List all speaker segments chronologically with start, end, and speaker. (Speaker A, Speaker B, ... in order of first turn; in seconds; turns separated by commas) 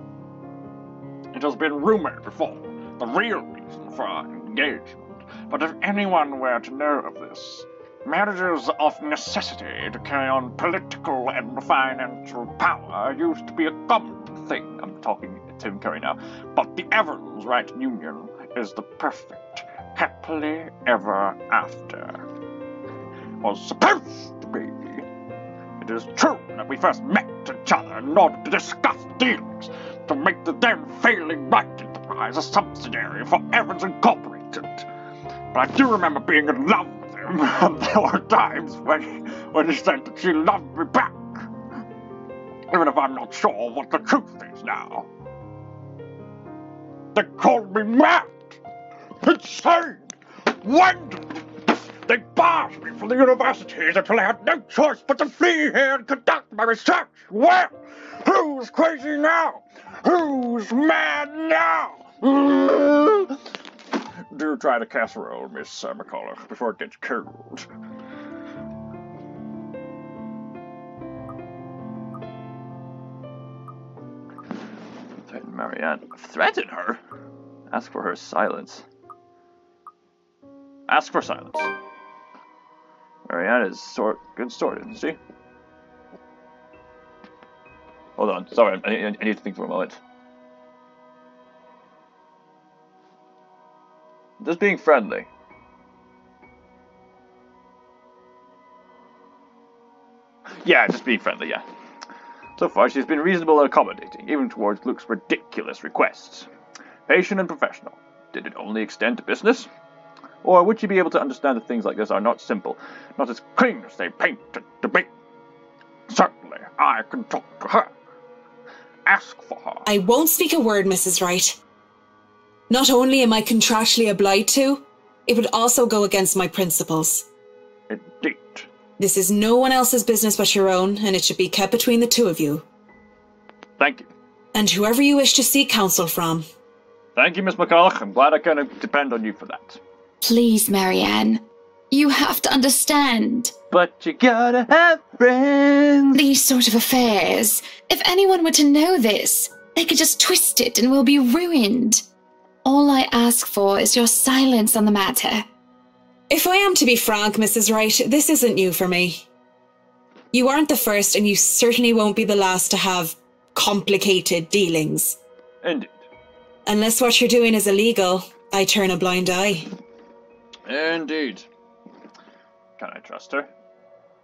Speaker A: 1.3-22.2, Speaker A: 23.4-25.0, Speaker A: 25.8-34.9, Speaker A: 35.5-41.2, Speaker A: 42.7-45.1, Speaker A: 47.1-48.4, Speaker A: 49.2-63.4, Speaker A: 64.3-67.7, Speaker A: 75.3-77.0, Speaker A: 77.7-78.8, Speaker A: 80.9-81.7, Speaker A: 83.3-85.2, Speaker A: 88.2-90.0, Speaker A: 94.4-95.3, Speaker A: 100.6-101.6, Speaker A: 102.6-106.5, Speaker A: 107.1-109.7, Speaker A: 110.4-115.1, Speaker A: 116.1-117.9, Speaker A: 119.1-119.9, Speaker B: 119.9-121.6, Speaker B: 122.7-127.3, Speaker A: 127.9-128.7, Speaker B: 129.0-132.7, Speaker A: 133.8-134.1, Speaker B: 134.5-136.5, Speaker A: 137.2-139.8, Speaker C: 140.2-143.5, Speaker A: 143.7-146.2, Speaker C: 146.1-152.0, Speaker C: 152.7-155.4, Speaker B: 156.3-159.2, Speaker B: 160.3-165.2, Speaker A: 165.6-166.1, Speaker B: 166.7-169.7, Speaker A: 170.7-171.5, Speaker A: 172.8-173.5